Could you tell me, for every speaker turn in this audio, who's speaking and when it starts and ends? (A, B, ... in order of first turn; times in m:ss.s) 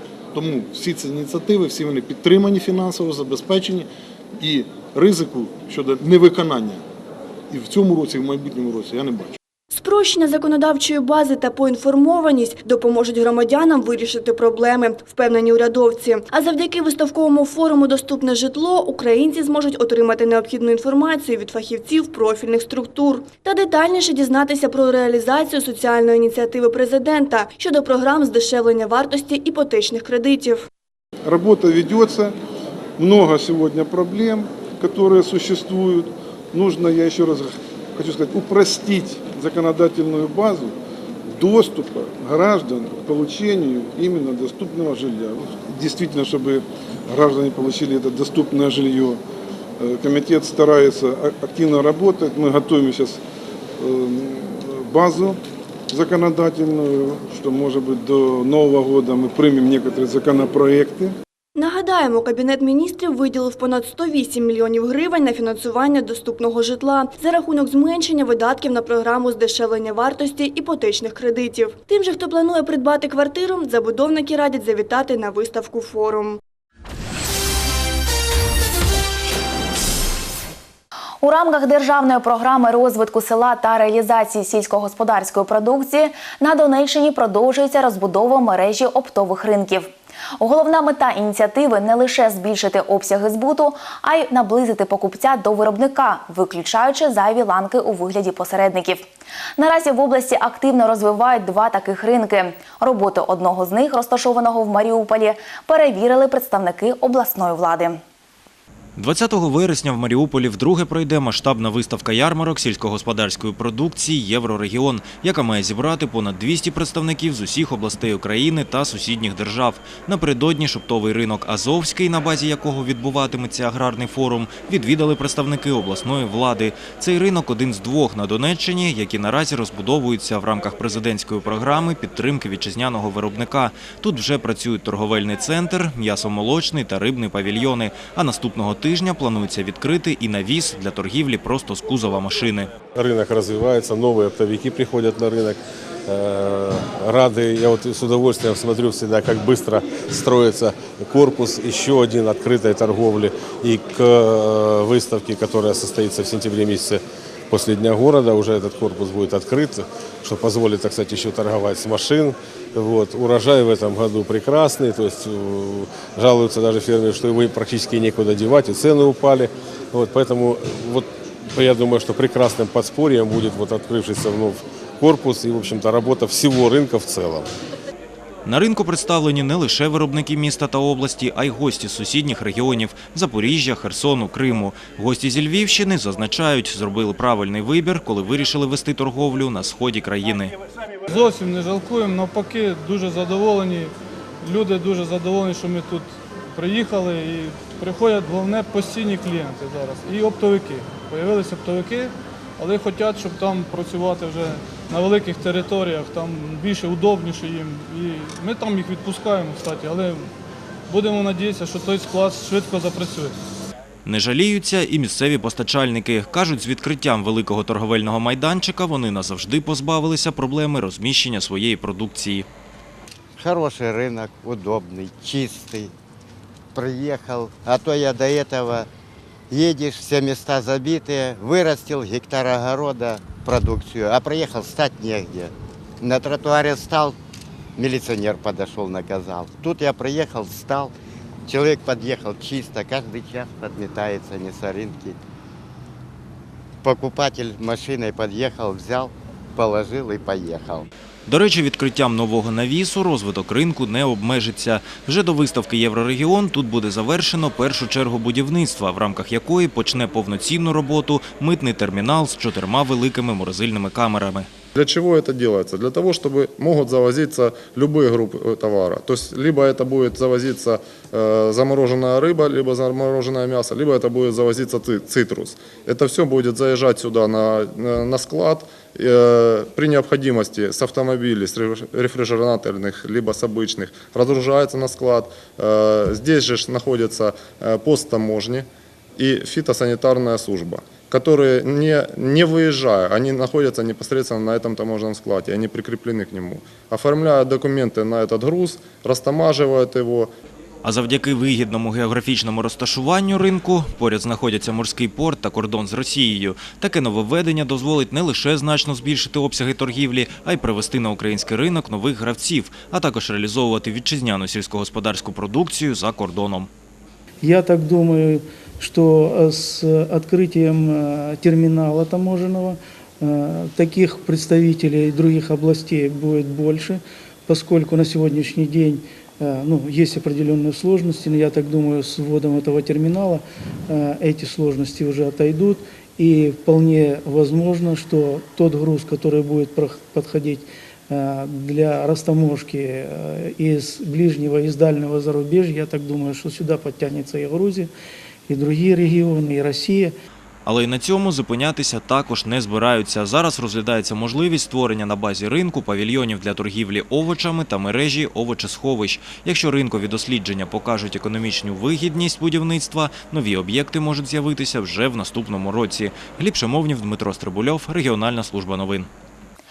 0:00.3-0:03.9 A
0:04.4-0:06.8 A
0:07.5-0:09.4 A
0:09.7-0:30.7 B
0:31.2-0:32.4 C
0:33.0-0:40.8 C
0:41.3-0:49.2 C
0:49.8-0:53.2 C
0:53.8-1:01.2 C
1:01.6-1:16.4 B
1:21.2-1:39.1 D
1:39.6-1:48.0 D
1:49.0-2:22.7 E
2:23.0-2:57.5 F
2:58.4-3:10.5 E
3:11.1-3:30.3 G
3:30.9-3:33.4 G
3:34.0-3:42.5 E
3:43.4-3:45.9 H
3:46.8-3:48.9 H
3:49.5-3:57.2 H
3:57.8-4:00.9 H
4:01.5-4:05.2 H
4:06.8-4:10.9 H
4:11.3-4:24.5 E
4:24.8-4:48.7 I
4:49.2-5:00.3 I
5:00.8-5:16.7 E
5:17.4-5:47.9 J
5:48.5-5:50.2 J
5:50.7-6:09.1 E